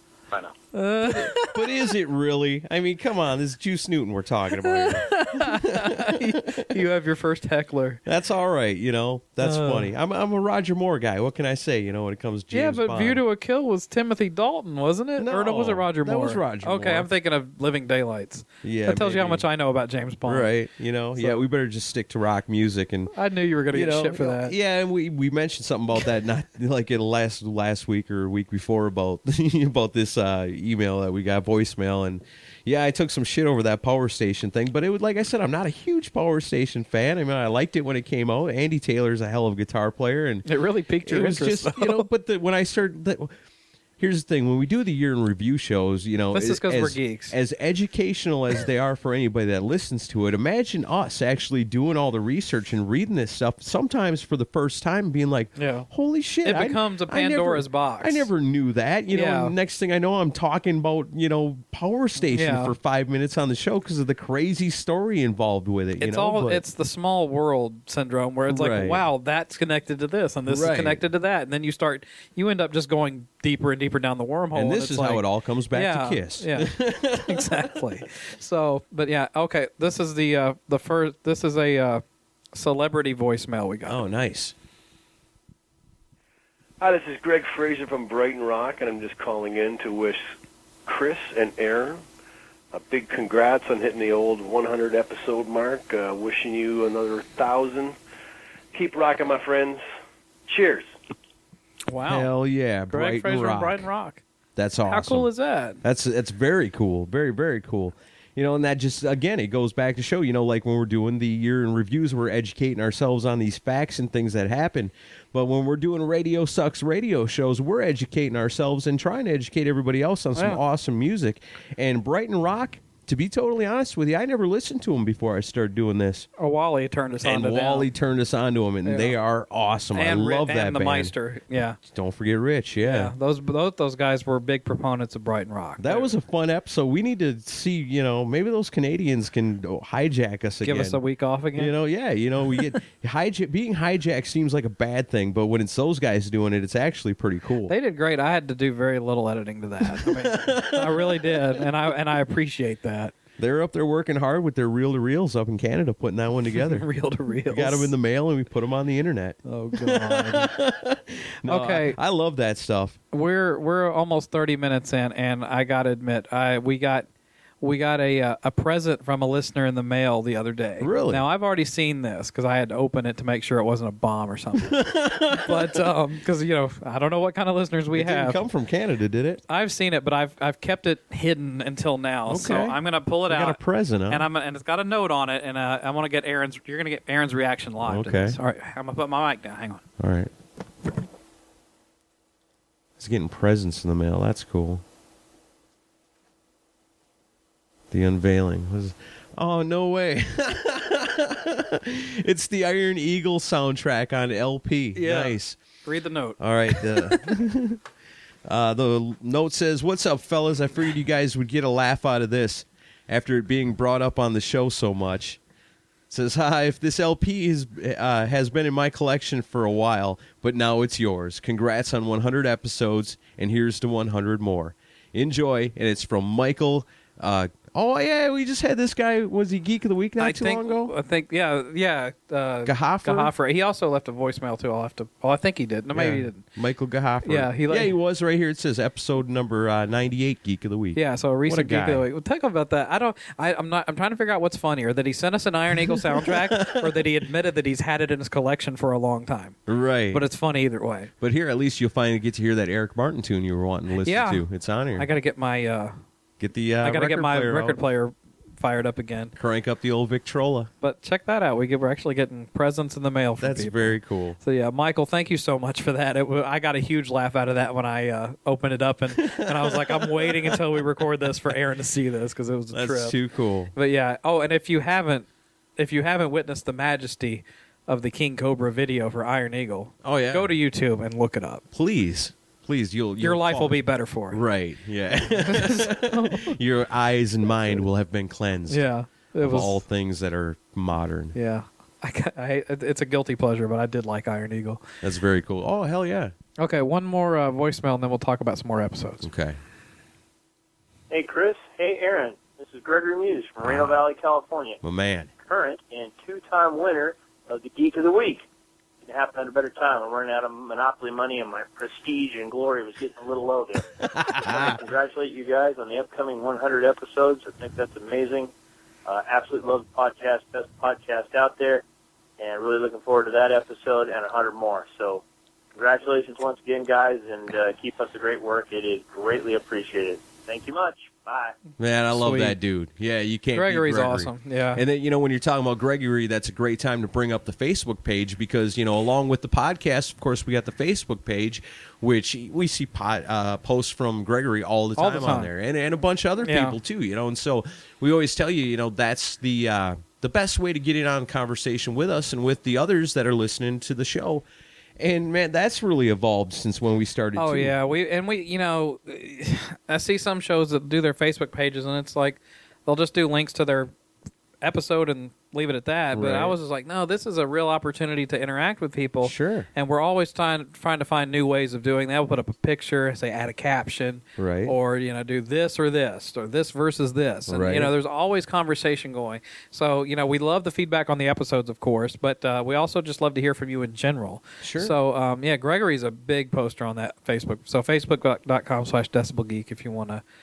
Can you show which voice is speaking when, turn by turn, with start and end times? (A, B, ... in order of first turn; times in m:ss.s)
0:00.7-0:01.5 A
0:01.4-0:06.6 B
0:04.6-0:08.0 A
0:08.0-0:13.2 B
0:09.4-0:09.9 A
0:12.5-0:20.5 A
0:15.2-0:17.1 B
0:18.6-0:19.4 B
0:20.2-0:23.1 B
0:21.2-0:21.4 A
0:23.1-0:24.5 A
0:23.7-0:40.4 B
0:40.4-0:42.1 A
0:41.0-0:43.3 B
0:44.0-1:06.6 B
0:46.3-0:47.3 A
0:55.6-0:55.9 A
0:56.4-0:58.3 A
0:59.1-0:59.5 A
1:02.2-1:02.7 A
1:06.0-1:22.0 A
1:08.5-1:09.0 B
1:10.5-1:11.0 B
1:14.5-1:17.6 B
1:22.5-1:24.0 A
1:23.9-1:24.5 B
1:26.8-1:30.3 C
1:30.9-1:32.0 C
1:32.7-1:38.0 C
1:38.7-1:39.8 C
1:40.5-1:40.9 C
1:41.9-1:42.3 A
1:42.0-1:43.9 B
1:42.9-1:44.2 A
1:44.6-1:45.3 B
1:44.9-1:45.8 A
1:45.8-2:06.3 B
2:00.3-2:00.6 A
2:06.4-2:07.9 A
2:07.2-2:11.1 B
2:08.8-2:09.1 A
2:09.9-2:11.8 A
2:11.8-2:13.1 B
2:12.8-2:16.1 A
2:15.8-2:21.0 B
2:20.6-2:21.7 A
2:21.5-2:27.7 B
2:27.7-2:33.1 A
2:29.8-2:31.4 B
2:33.4-2:36.9 B
2:36.5-2:37.9 A
2:37.5-2:43.0 B
2:39.4-2:40.5 A
2:41.5-2:42.0 A
2:43.1-2:47.1 A
2:47.6-2:54.8 A
2:50.8-2:51.2 B
2:54.6-2:55.8 B
2:55.3-2:58.4 A
2:57.9-2:59.4 B
2:59.5-3:09.8 A
3:02.3-3:04.2 B
3:07.8-3:08.4 B
3:10.0-3:10.3 B
3:13.0-3:14.8 B
3:17.9-3:25.6 B
3:24.9-3:27.1 A
3:26.4-3:27.8 B
3:28.4-3:35.4 B
3:36.1-3:50.9 B
3:50.2-3:56.4 A
3:52.6-3:53.3 B
3:55.9-4:02.0 B
3:57.2-3:57.9 A
4:00.9-4:09.6 A
4:05.8-4:07.0 B
4:09.7-4:10.2 B
4:10.1-4:11.1 A
4:11.2-4:15.1 B
4:14.0-4:14.4 A
4:15.0-4:16.0 A
4:16.4-4:17.8 B
4:16.8-4:19.3 A
4:19.4-4:20.7 B
4:20.8-4:33.2 A
4:23.4-4:24.4 B
4:29.2-4:30.9 B
4:32.7-4:33.7 B
4:33.7-4:35.3 A
4:35.8-4:41.6 A
4:40.0-4:40.5 B
4:41.7-4:48.8 B
4:43.2-4:44.4 A
4:45.4-4:46.6 A
4:48.7-4:49.8 A
4:49.4-4:51.4 B
4:51.3-4:54.8 A
4:55.0-4:56.3 B
4:56.6-4:59.3 A
4:59.2-4:59.6 B
5:01.1-5:04.8 D
5:03.6-5:04.0 B
5:04.8-5:05.3 B
5:05.4-5:08.4 D
5:09.0-5:13.9 D
5:14.1-5:14.8 B
5:14.4-5:18.5 D
5:19.0-5:21.8 D
5:22.4-5:25.2 D
5:25.8-5:31.5 D
5:31.8-5:54.4 B
5:32.1-5:32.6 A
5:33.5-5:34.8 A
5:45.0-5:45.5 A
5:46.4-5:46.8 A
5:55.0-5:57.7 B
5:57.4-6:03.9 A
6:04.6-6:30.2 A
6:06.1-6:06.5 B
6:09.2-6:09.7 B
6:14.4-6:14.7 B
6:17.5-6:17.9 B
6:24.6-6:24.9 B